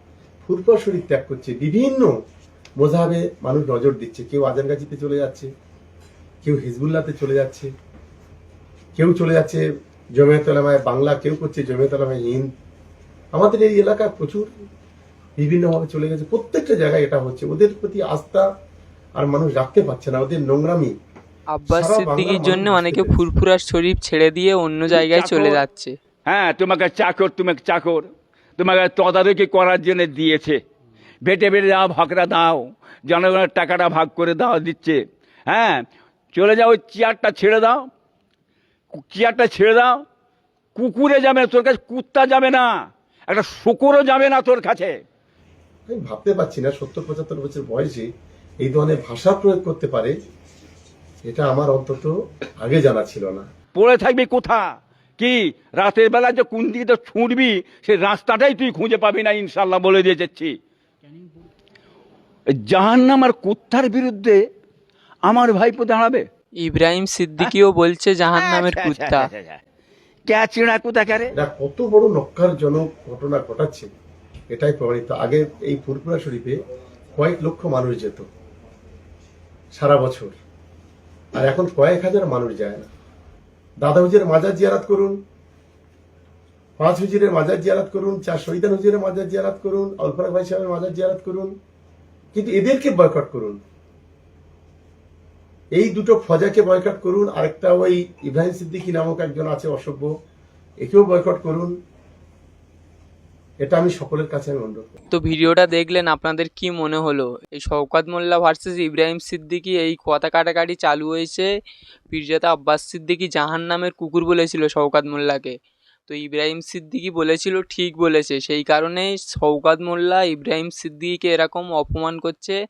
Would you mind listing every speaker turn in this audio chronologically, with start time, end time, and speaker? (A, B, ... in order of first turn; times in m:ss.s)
0:00.4-0:02.1 A
0:02.8-0:05.5 A
0:06.4-0:07.7 A
0:09.0-0:09.6 A
0:10.2-0:12.5 A
0:13.3-0:14.5 A
0:15.4-0:18.4 A
0:19.2-0:20.9 A
0:21.5-0:25.9 B
0:21.7-0:23.2 A
0:24.9-0:25.6 C
0:26.2-0:28.0 C
0:28.6-0:30.6 C
0:31.2-0:37.8 C
0:38.9-0:40.0 C
0:40.7-0:42.7 C
0:43.3-0:44.9 C
0:45.9-0:48.1 A
0:48.6-0:50.1 A
0:51.2-0:53.4 A
0:53.7-0:54.6 C
0:55.2-1:00.5 C
1:02.6-1:04.4 C
1:05.3-1:06.2 C
1:06.6-1:09.3 B
1:08.3-1:09.6 C
1:10.3-1:11.3 C
1:11.4-1:13.9 A
1:14.5-1:16.6 A
1:17.2-1:18.2 A
1:19.7-1:20.4 A
1:21.4-1:22.9 A
1:23.8-1:25.2 A
1:26.8-1:31.5 A
1:32.3-1:33.6 A
1:35.8-1:40.1 A
1:40.8-1:41.7 A
1:43.6-1:44.9 A
1:45.1-1:51.5 B
1:52.1-1:55.5 B
1:56.1-2:02.6 B